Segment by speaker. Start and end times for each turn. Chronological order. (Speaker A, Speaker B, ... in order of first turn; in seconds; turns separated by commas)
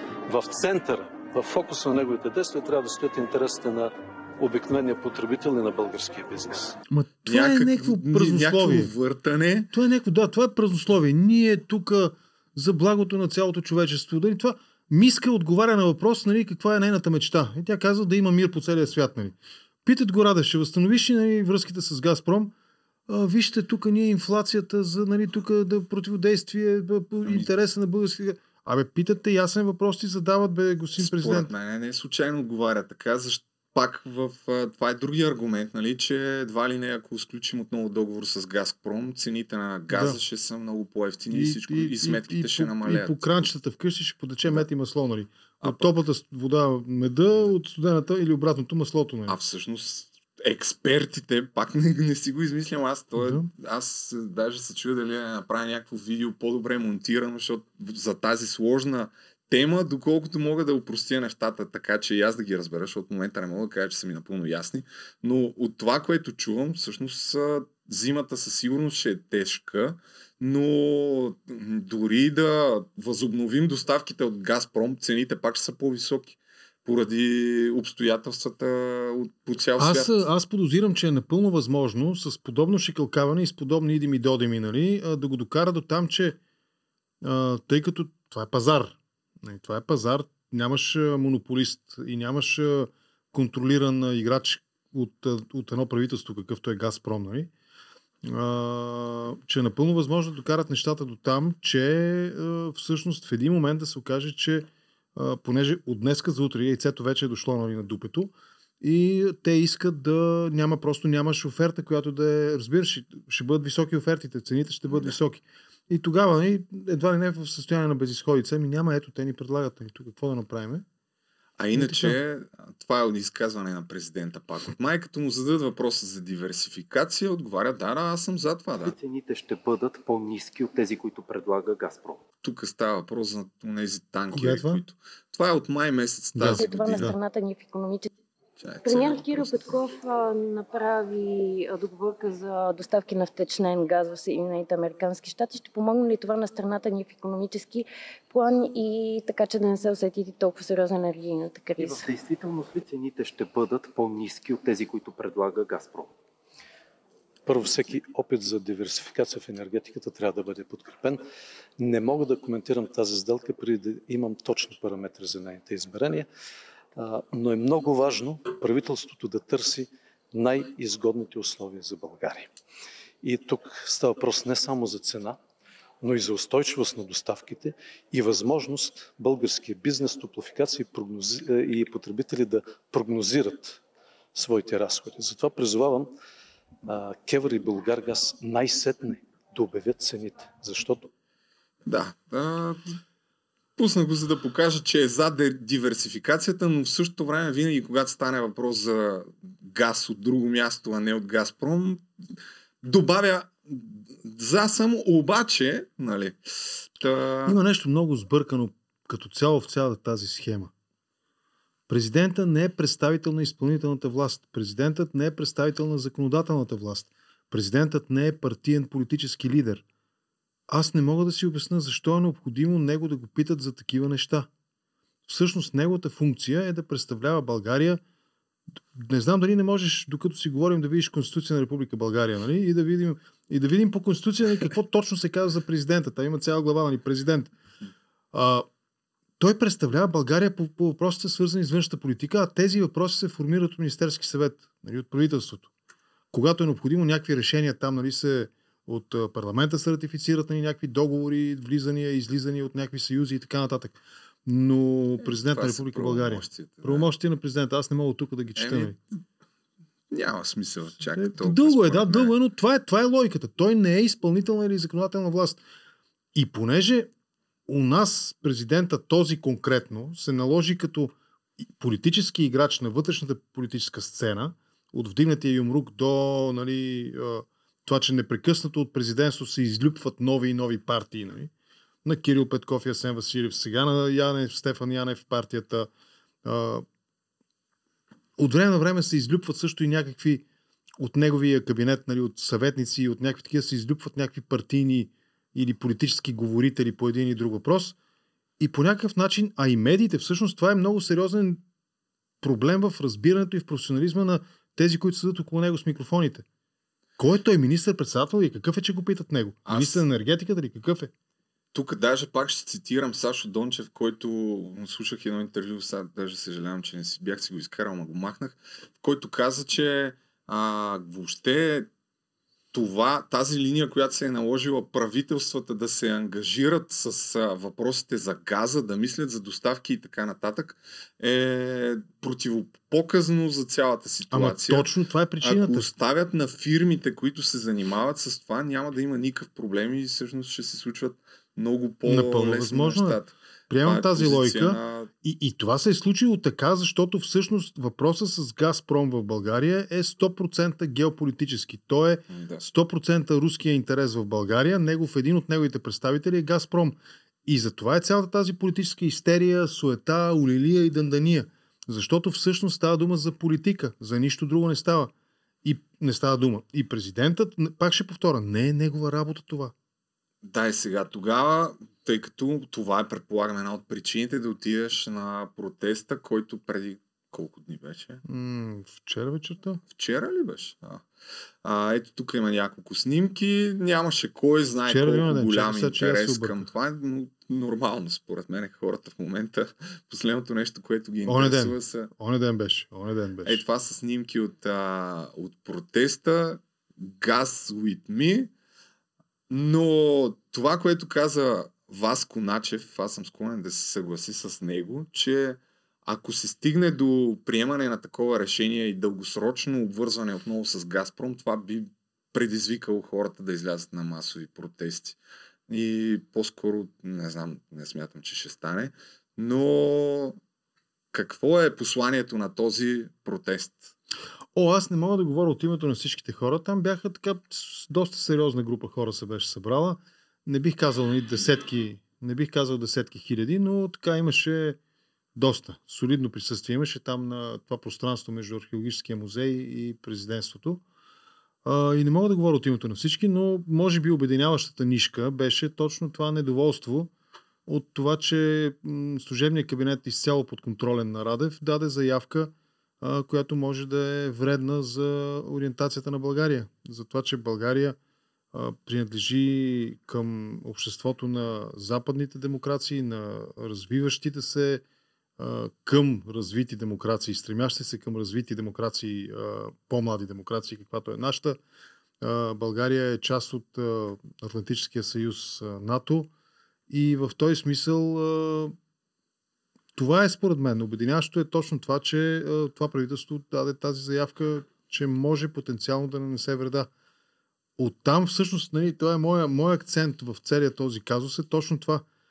Speaker A: 0.3-6.8, Speaker B: 6.9-8.9, Speaker C: 7.3-9.7, Speaker B: 9.7-22.5, Speaker B: 23.1-31.5, Speaker C: 27.2-27.5, Speaker C: 31.0-43.5, Speaker B: 39.9-40.2, Speaker B: 41.3-49.4, Speaker C: 45.6-46.0, Speaker C: 49.3-80.2, Speaker B: 53.2-53.5, Speaker B: 79.8-86.4, Speaker B: 87.2-97.5, Speaker B: 98.2-120.8, Speaker C: 114.9-115.2, Speaker C: 121.6-128.9, Speaker B: 121.7-122.2, Speaker D: 128.8-132.2, Speaker C: 132.4-137.1, Speaker B: 134.3-134.8, Speaker B: 136.4-137.2, Speaker E: 136.5-138.1, Speaker C: 138.6-139.8, Speaker E: 138.8-152.0, Speaker D: 151.8-156.2, Speaker A: 157.5-161.2, Speaker A: 161.8-166.3, Speaker A: 167.0-172.5, Speaker A: 173.2-175.4, Speaker A: 176.0-183.8, Speaker A: 184.3-186.1, Speaker A: 186.9-191.1, Speaker C: 191.9-193.0, Speaker C: 193.8-202.0, Speaker C: 202.8-207.6, Speaker B: 207.5-210.7, Speaker B: 211.9-219.8, Speaker B: 220.7-224.5, Speaker B: 225.3-228.0, Speaker B: 228.9-237.5, Speaker B: 238.3-238.7, Speaker B: 239.4-245.7, Speaker B: 246.3-259.0, Speaker C: 255.3-257.1, Speaker C: 258.6-259.0, Speaker C: 260.1-262.3, Speaker B: 261.1-265.6, Speaker B: 266.4-267.1, Speaker B: 267.7-281.5, Speaker B: 282.0-285.9, Speaker B: 286.4-286.9, Speaker B: 288.4-290.4, Speaker B: 291.0-297.9, Speaker B: 298.6-301.6, Speaker B: 302.4-306.4, Speaker B: 307.2-311.1, Speaker C: 309.7-310.1, Speaker C: 311.7-321.9, Speaker C: 322.7-334.9, Speaker B: 334.3-335.9, Speaker C: 335.4-345.1, Speaker B: 342.1-365.1, Speaker C: 352.3-352.7, Speaker B: 365.6-369.7, Speaker C: 370.4-378.2, Speaker B: 378.3-379.8, Speaker C: 379.9-381.0, Speaker C: 381.6-392.1, Speaker B: 384.9-386.6, Speaker B: 391.3-393.6, Speaker C: 393.4-398.5, Speaker C: 399.5-415.2, Speaker C: 415.7-420.4, Speaker C: 421.1-423.9, Speaker B: 424.6-434.8, Speaker B: 435.4-440.8, Speaker B: 441.6-447.1, Speaker B: 447.7-458.0, Speaker B: 458.5-464.8, Speaker B: 465.4-471.6, Speaker B: 472.2-476.3, Speaker B: 476.9-478.8, Speaker B: 480.0-486.9, Speaker B: 487.8-492.1